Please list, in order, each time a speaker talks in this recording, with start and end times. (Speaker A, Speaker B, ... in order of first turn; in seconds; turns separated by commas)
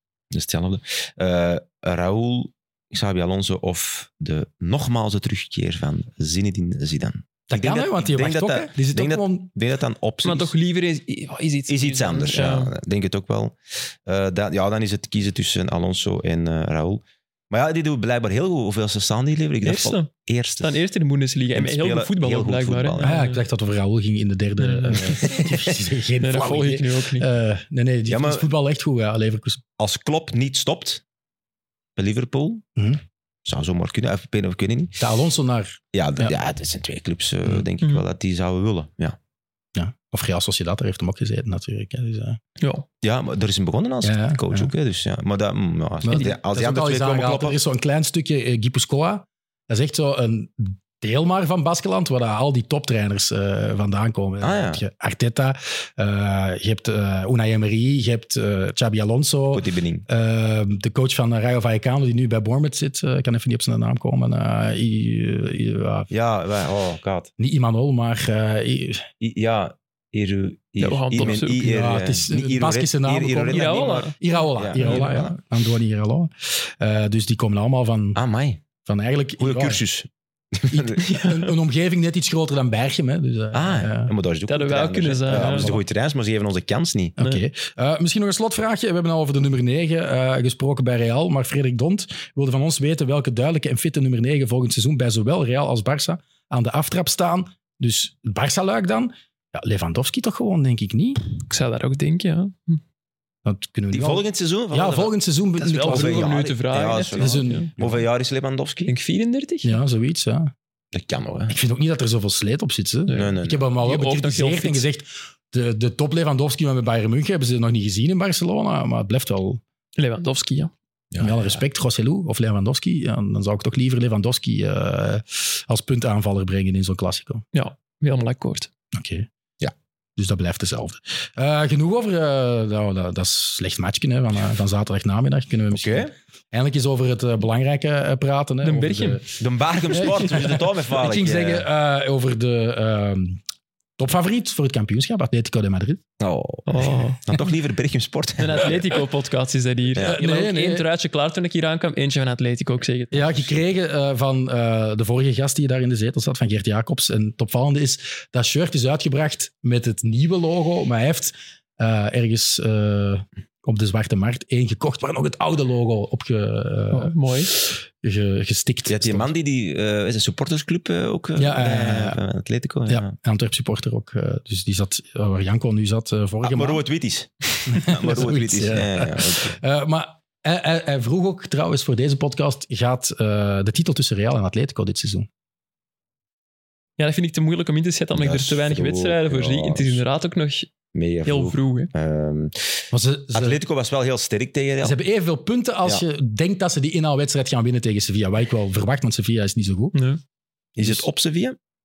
Speaker A: 0.3-10.5, Speaker B: 7.5-9.5, Speaker C: 10.2-12.7, Speaker A: 11.7-20.8, Speaker C: 19.6-23.4, Speaker A: 21.5-23.2, Speaker B: 23.0-29.6, Speaker C: 24.6-25.4, Speaker A: 25.2-25.7, Speaker C: 26.2-27.3, Speaker A: 28.1-28.5, Speaker A: 29.8-31.0, Speaker A: 32.0-32.6, Speaker A: 33.5-35.0, Speaker B: 35.0-36.3, Speaker A: 35.9-39.2, Speaker B: 39.8-42.4, Speaker C: 42.6-42.9, Speaker A: 43.0-47.6, Speaker B: 44.0-44.7, Speaker B: 46.0-66.1, Speaker A: 54.4-54.8, Speaker A: 59.5-60.0, Speaker A: 66.1-67.3, Speaker B: 67.4-69.1, Speaker A: 69.2-75.3, Speaker C: 70.8-71.7, Speaker B: 71.2-78.2, Speaker C: 73.5-74.2, Speaker C: 74.8-75.2, Speaker A: 78.2-78.6, Speaker B: 78.8-79.8, Speaker A: 79.4-81.1, Speaker B: 80.7-84.1, Speaker C: 81.1-81.4, Speaker A: 83.5-87.2, Speaker C: 84.5-85.7, Speaker B: 85.3-85.8, Speaker B: 87.2-101.2, Speaker C: 101.5-102.8, Speaker B: 103.5-106.3, Speaker A: 103.9-108.9, Speaker C: 105.7-107.7, Speaker B: 107.2-108.0, Speaker C: 108.9-109.8, Speaker B: 109.7-110.5, Speaker A: 110.9-111.6, Speaker B: 111.5-119.6, Speaker C: 113.1-114.8, Speaker A: 113.1-113.7, Speaker C: 120.0-120.7, Speaker A: 121.1-121.6, Speaker B: 121.2-127.4, Speaker C: 127.5-128.7, Speaker B: 128.9-129.3, Speaker B: 130.2-139.3, Speaker A: 135.7-136.1, Speaker C: 138.6-139.2, Speaker A: 139.4-141.7, Speaker B: 139.9-143.4, Speaker B: 144.0-146.0, Speaker A: 146.2-148.9, Speaker C: 146.7-147.2, Speaker C: 148.4-153.6, Speaker B: 150.0-150.9, Speaker B: 153.1-169.3, Speaker C: 166.9-167.6, Speaker A: 168.9-173.1, Speaker B: 171.4-172.2, Speaker B: 172.9-176.8, Speaker A: 176.4-179.6, Speaker B: 177.7-185.3, Speaker C: 187.0-190.7, Speaker A: 188.2-190.0, Speaker A: 190.9-195.0, Speaker C: 191.3-191.9, Speaker B: 192.9-193.6, Speaker B: 194.8-199.9, Speaker C: 199.9-200.2, Speaker A: 200.8-201.6, Speaker B: 200.8-201.1